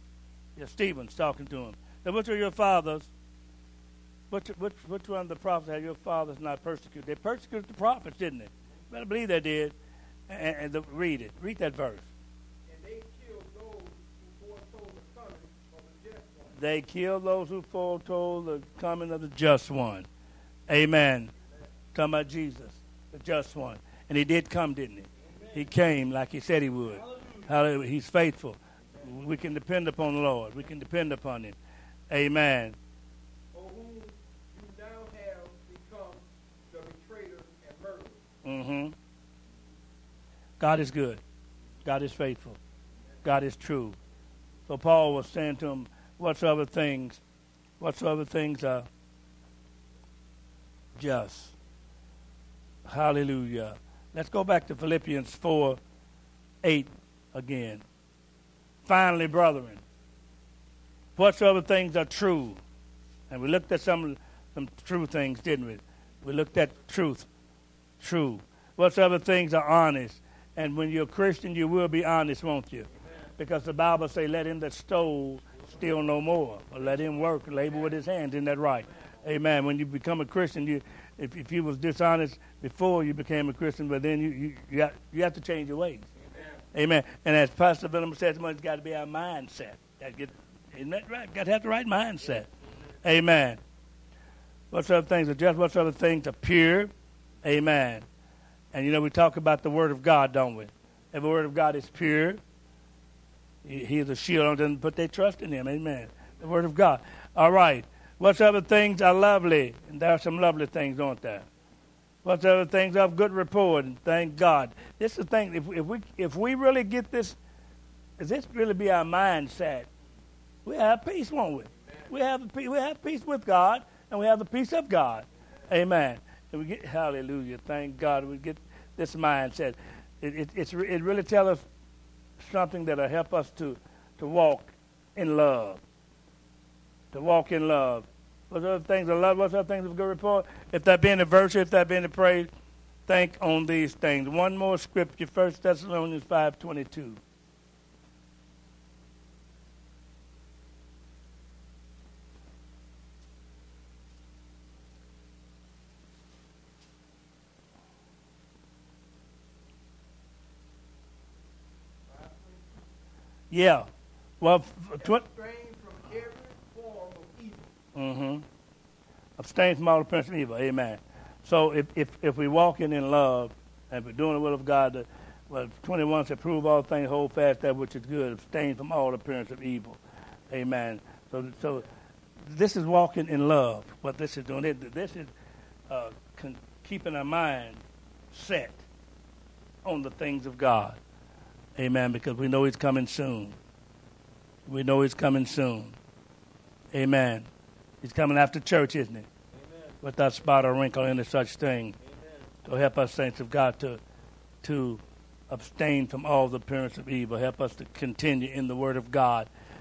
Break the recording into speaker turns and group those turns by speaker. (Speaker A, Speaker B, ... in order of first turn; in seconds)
Speaker A: 0.6-3.1, 4.3-9.7, 10.3-12.1, 16.6-20.1, 20.7-21.3, 21.9-31.6, 32.1-32.8, 38.4-39.0, 40.6-41.2, 41.8-42.6, 43.2-44.0, 44.7-47.2, 47.8-48.9, 51.0-51.5, 52.9-55.8, 56.6-57.8, 58.9-59.8, 61.1-62.6, 63.3-67.3, 68.0-86.1, 86.7-92.5, 93.0-93.6, 94.7-96.9, 97.4-98.0, 98.7-102.4, 103.6-111.5, 112.2-117.4, 118.2-119.9, 120.6-131.7, 132.4-135.8, 137.1-142.5, 143.1-147.2, 163.5-163.9, 164.4-165.2, 167.9-168.4, 169.4-181.8, 182.5-185.3, 185.9-188.8, 189.8-191.0, 191.8-193.6, 194.7-196.0, 196.9-197.5, 198.0-199.3, 200.0-201.9, 202.6-204.0, 204.6-209.5
Speaker B: 12.7-16.6, 33.5-38.2, 162.1-162.9, 165.0-167.7
Speaker C: 25.3-25.6, 26.9-27.5, 73.0-73.3, 77.7-77.9, 199.5-200.0, 202.0-202.5